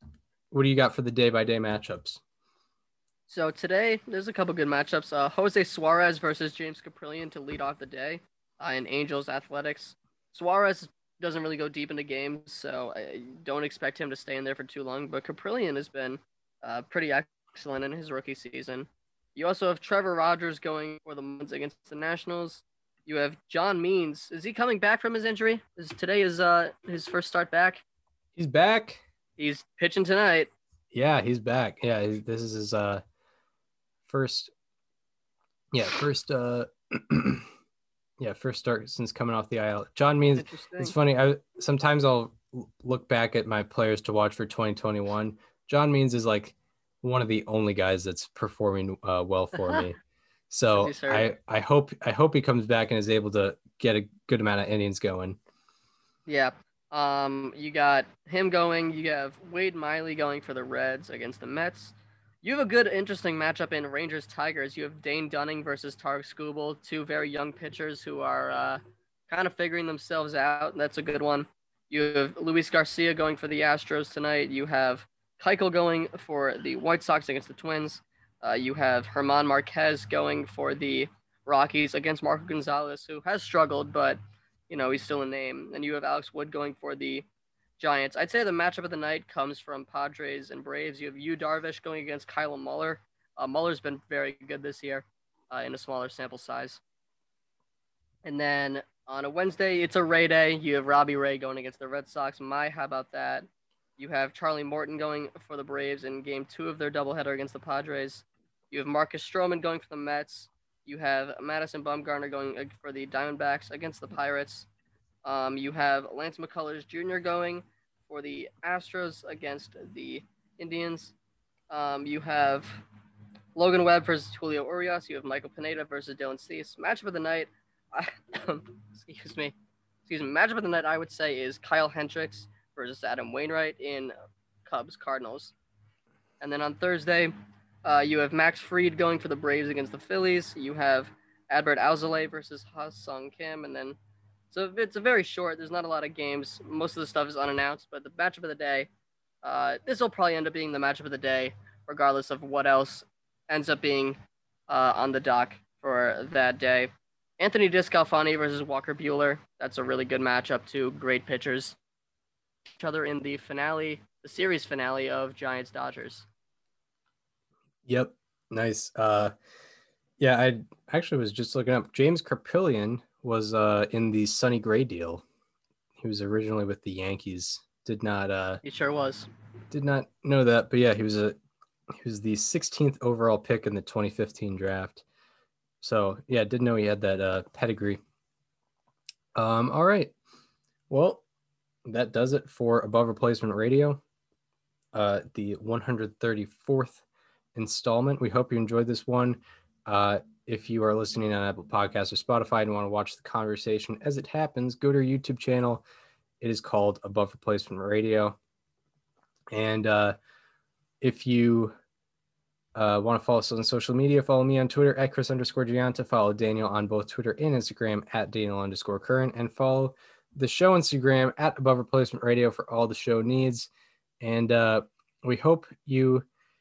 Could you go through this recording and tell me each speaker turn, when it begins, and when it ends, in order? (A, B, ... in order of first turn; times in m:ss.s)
0:00.5-0:02.2 A
0:03.3-0:27.8 B
0:28.4-0:29.0 A
0:29.4-0:30.5 B
0:30.9-0:33.0 A
0:34.1-0:34.5 A
0:35.7-0:37.5 A
0:38.2-0:50.0 A
0:40.4-0:41.0 B
0:49.6-0:49.8 B
0:50.5-0:55.4 A
0:50.8-0:51.3 B
0:56.3-1:27.3 B
1:27.8-1:36.8 B
1:38.2-1:43.5 B
1:44.0-1:54.7 B
1:55.2-2:01.2 B
2:01.7-2:02.8 B
2:03.6-2:09.5 B
2:10.1-2:14.1 B
2:14.7-2:15.5 B
2:16.4-2:17.3 B
2:17.8-2:24.0 B
2:24.5-2:28.9 B
2:29.4-2:41.8 B
2:42.8-2:46.3 B
2:47.9-2:49.3 A
2:50.2-2:55.2 A
2:56.0-2:58.6 A
2:58.6-2:59.3 B
2:59.7-3:01.4 A
3:02.0-3:05.0 A
3:05.8-3:08.0 A
3:09.4-3:10.1 A
3:10.9-3:11.2 A
3:11.9-3:14.0 A
3:14.9-3:17.0 A
3:17.6-3:25.8 A
3:26.4-3:28.4 A
3:29.5-3:30.2 A
3:31.0-3:31.7 A
3:32.8-3:43.7 A
3:44.2-3:46.3 A